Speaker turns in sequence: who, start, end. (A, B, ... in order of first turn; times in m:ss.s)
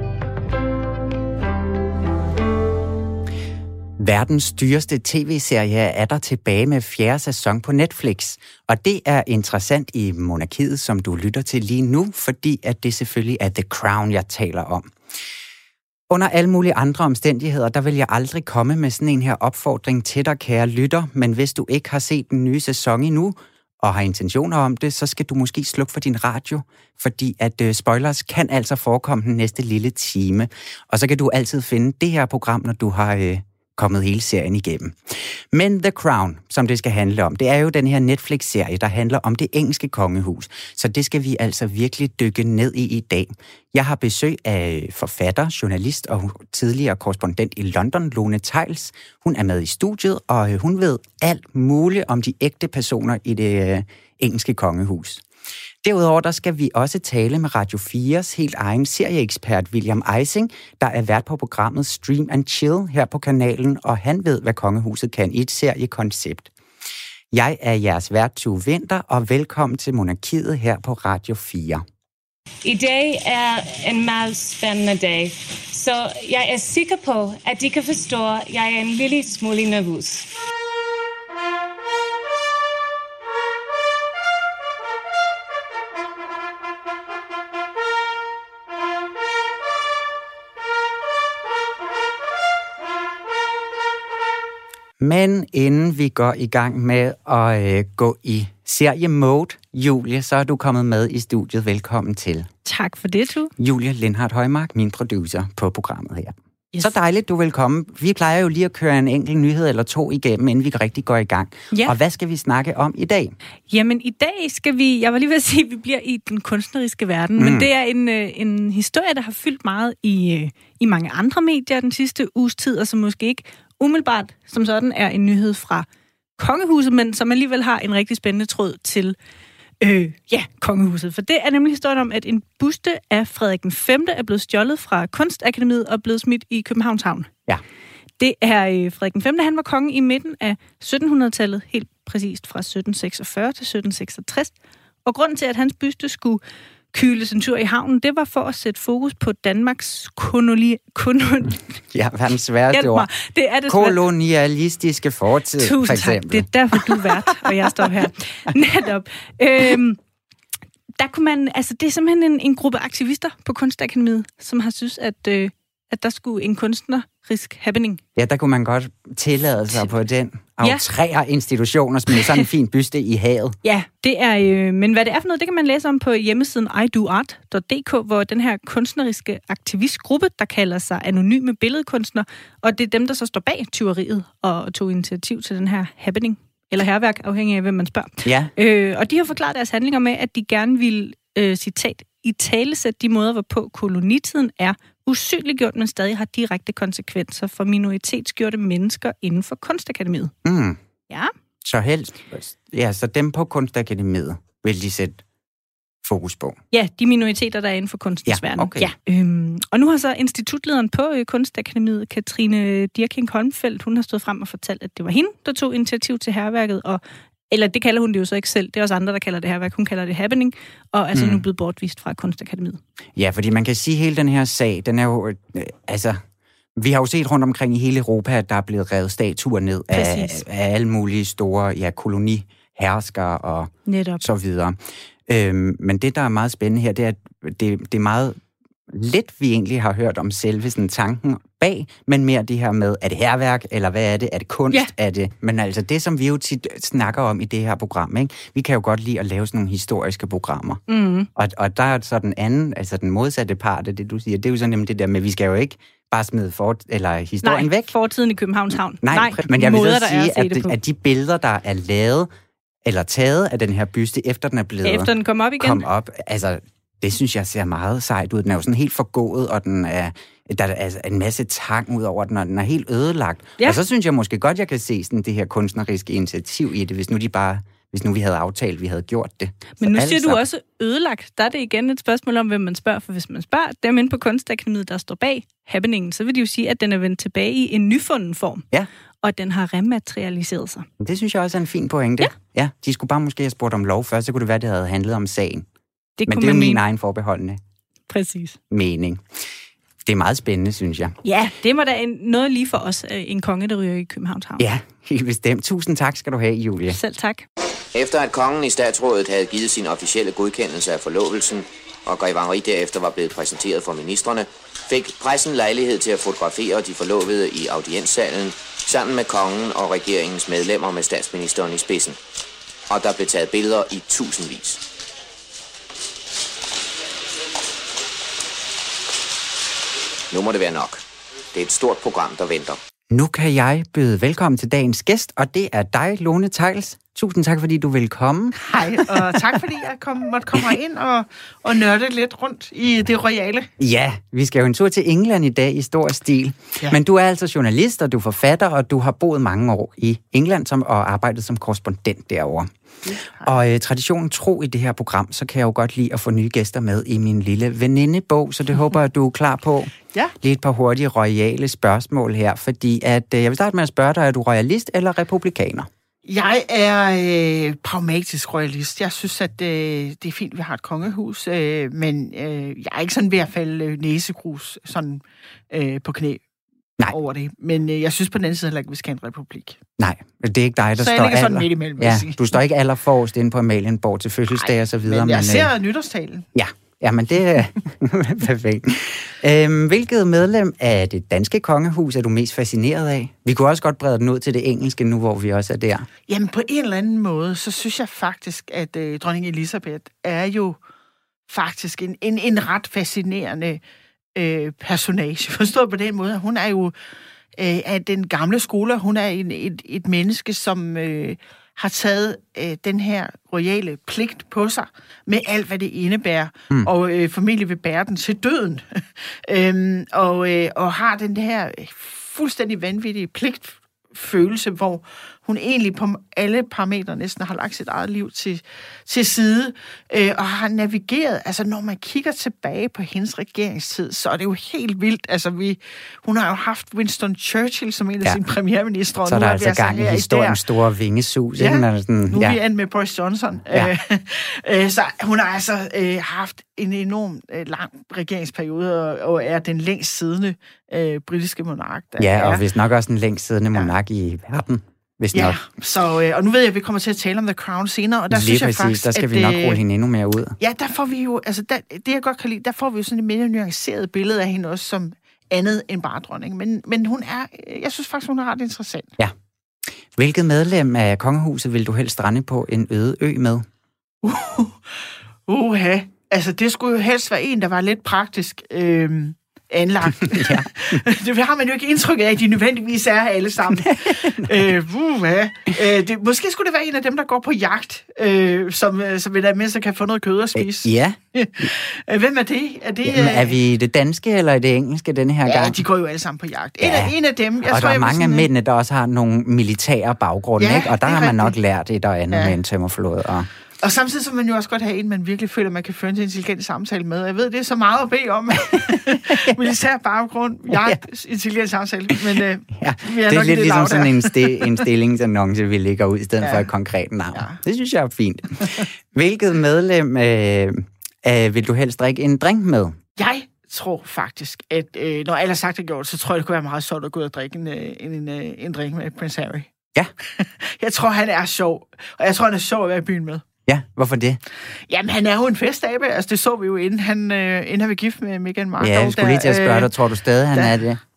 0:04.0-0:14.9 A
0:16.1-0:55.2 A
0:55.8-1:06.5 A
1:07.3-1:11.8 A
1:12.6-1:20.4 B
1:35.0-1:42.5 A
1:42.6-1:43.5 C
1:43.6-1:53.4 A
1:53.7-2:05.8 C
1:57.4-1:57.7 A
2:06.4-2:09.2 C
2:09.8-2:17.3 C
2:18.2-2:26.4 C
2:26.9-2:31.6 C
2:31.9-2:33.1 A
2:32.7-2:34.0 C
2:33.7-2:37.9 A
2:35.6-2:40.0 C
2:41.0-2:48.0 C
2:48.2-2:53.6 A
2:53.6-3:20.3 C
3:08.2-3:08.5 A
3:20.4-3:20.8 A
3:21.6-3:25.2 A
3:26.0-3:26.6 A
3:26.7-3:42.8 C
3:28.3-3:28.9 A
3:41.1-3:41.4 A
3:43.2-3:46.2 A
3:46.8-3:54.8 A
3:49.9-3:50.4 C
3:53.9-3:54.2 C
3:55.3-4:10.8 A
4:10.9-4:11.3 C
4:11.4-4:17.9 A
4:17.4-4:20.8 C
4:19.0-4:22.3 A
4:22.8-4:40.4 A
4:24.8-4:25.8 C
4:39.8-4:48.6 C
4:49.2-4:50.8 C
4:51.0-4:55.6 A
4:56.2-4:56.8 C
4:56.3-4:57.6 A
4:58.1-4:58.6 C
4:58.7-4:59.2 A
5:00.0-5:01.2 A
5:01.2-5:04.6 C
5:04.6-5:07.0 A
5:06.9-5:07.4 C
5:07.9-5:22.2 D
5:22.9-5:24.8 D
5:30.3-5:32.8 D
5:33.1-5:39.4 A
5:38.6-5:43.7 E
5:43.8-5:52.7 A
5:53.0-5:53.5 E
5:53.4-6:05.9 A
6:06.3-6:16.4 E
6:17.1-6:19.8 E
6:20.0-6:25.7 A
6:21.0-6:22.5 E
6:24.5-6:26.4 E
6:26.5-6:36.1 A
6:36.3-6:40.8 E
6:41.5-6:43.8 E
6:44.4-6:46.9 E
6:47.6-7:20.6 E
7:19.2-7:22.6 A
7:21.6-7:32.6 E
7:32.2-7:35.6 A
7:35.3-7:39.8 E
7:38.3-7:40.6 A
7:40.6-7:49.2 E
7:50.2-7:53.6 A
7:54.2-8:13.6 E
8:00.2-8:01.0 A
8:03.7-8:04.7 A
8:10.6-8:11.7 A
8:13.0-8:15.8 A
8:15.4-8:18.5 E
8:16.8-8:17.1 A
8:17.6-8:23.5 A
8:20.6-8:21.6 E
8:22.3-8:22.6 E
8:23.8-8:34.8 E
8:28.8-8:29.7 A
8:30.7-8:31.0 A
8:32.7-8:43.0 A
8:36.4-8:36.7 E
8:37.3-8:37.6 E
8:43.2-8:49.7 E
8:50.2-8:53.4 E
8:53.6-8:54.4 A
8:54.7-8:59.9 E
8:58.8-9:01.0 A
9:00.5-9:00.8 E